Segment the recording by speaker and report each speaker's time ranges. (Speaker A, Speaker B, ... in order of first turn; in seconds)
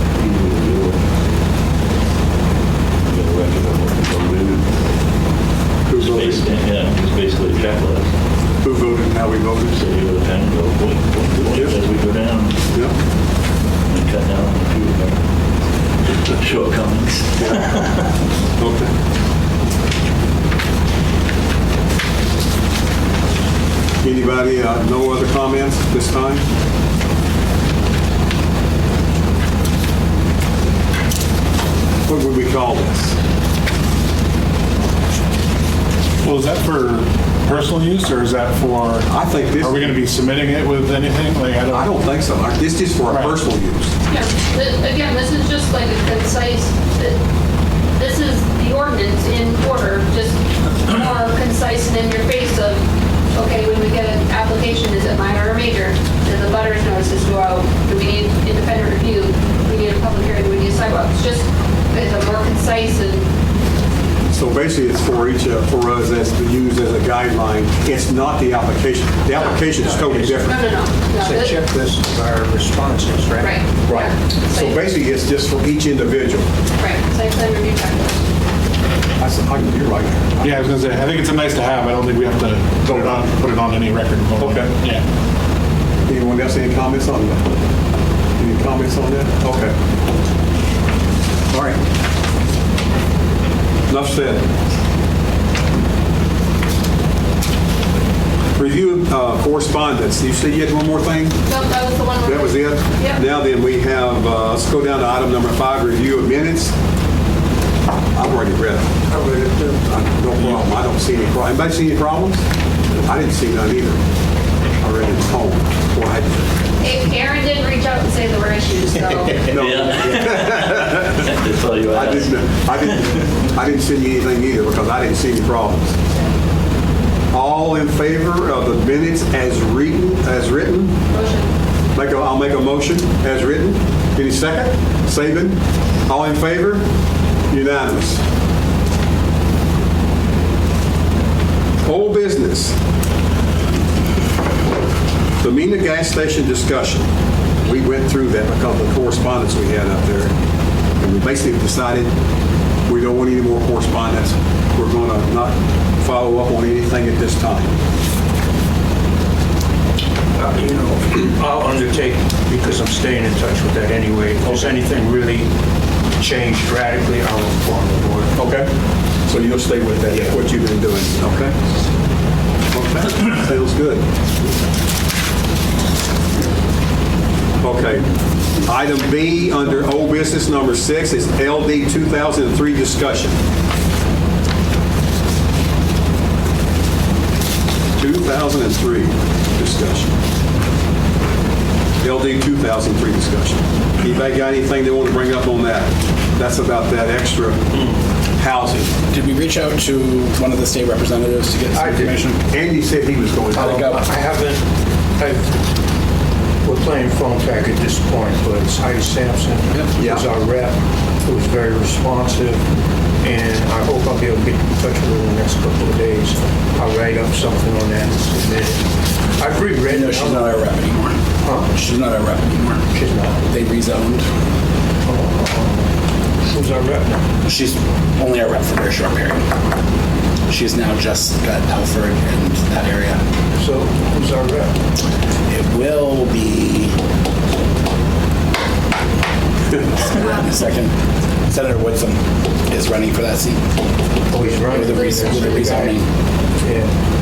Speaker A: 0.1-1.0, 3.0-4.6, 6.0-8.1, 9.7-12.6, 13.9-15.2, 16.0-18.0, 119.5-123.2
Speaker B: 5.9-6.5, 8.6-9.8, 17.4-17.8, 18.6-18.9, 24.0-26.4, 32.1-33.2, 39.1-40.0, 41.7-43.9, 64.3-70.6, 73.8-76.5, 79.2-80.6, 82.8-83.2, 84.4-84.7, 86.1-87.4, 88.4-89.7, 93.9-94.4, 98.5-101.4, 102.2-106.7, 108.1-108.9, 109.9-114.0, 114.8-116.5, 119.3-121.2, 121.9-126.0, 127.3-131.0, 131.9-136.8, 137.5-138.2, 141.8-142.8, 145.4-147.1, 147.6-150.3, 151.0-152.1, 152.9-157.7, 168.3-168.7, 169.3-171.5, 172.7-174.0, 177.6-178.1, 178.6-183.4, 188.0-190.1, 192.0-197.6, 198.4-198.9, 202.5-203.8, 210.0-210.2
Speaker C: 36.2-41.9, 43.1-43.4, 80.4-85.0
Speaker D: 44.1-47.2, 48.0-52.8, 53.3-63.2, 69.3-69.6, 70.4-71.6, 73.4-74.8, 76.8-78.2, 101.5-103.3, 116.8-119.5, 131.1-131.5, 244.7-245.8
Speaker E: 69.8-70.5, 71.1-73.6, 109.1-109.9, 160.3-165.5, 166.2-168.3, 170.1-170.4, 197.7-198.0, 201.7-202.2, 203.5-204.6, 205.2-205.6, 206.6-212.6, 213.2-220.6, 221.4-221.7, 222.9-223.4, 225.0-225.9, 226.4-227.2, 233.5-234.8, 244.3-246.0, 246.6-246.9
Speaker F: 199.1-202.4, 203.5-204.0, 219.8-224.3, 227.4-229.4, 230.5-233.2, 235.5-236.9, 239.9-240.9, 241.5-243.6, 244.5-246.1